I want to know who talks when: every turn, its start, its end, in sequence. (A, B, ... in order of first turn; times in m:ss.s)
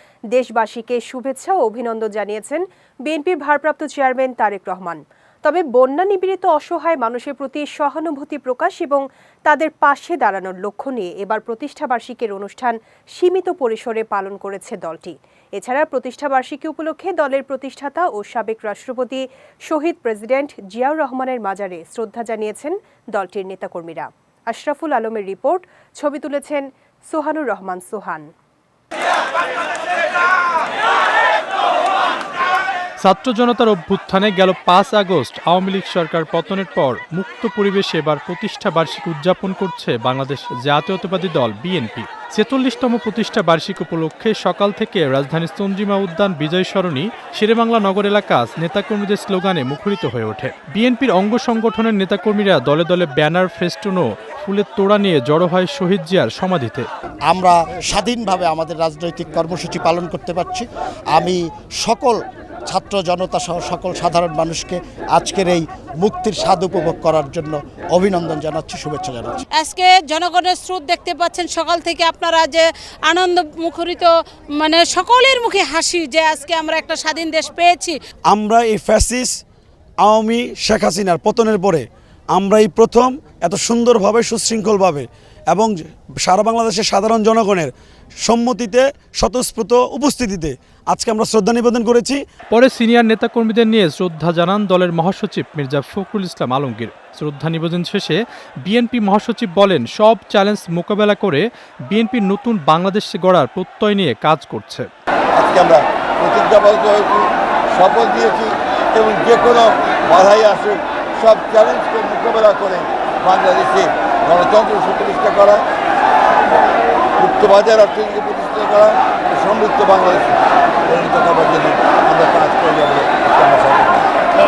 0:00.3-0:28.3 A
0:33.0-0:56.8 B
0:57.3-1:09.4 C
1:09.6-1:17.9 D
1:18.3-1:19.3 E
1:20.0-1:27.7 E
1:28.2-1:32.2 E
1:32.5-1:44.9 B
1:45.4-1:55.6 F
1:57.2-2:04.0 F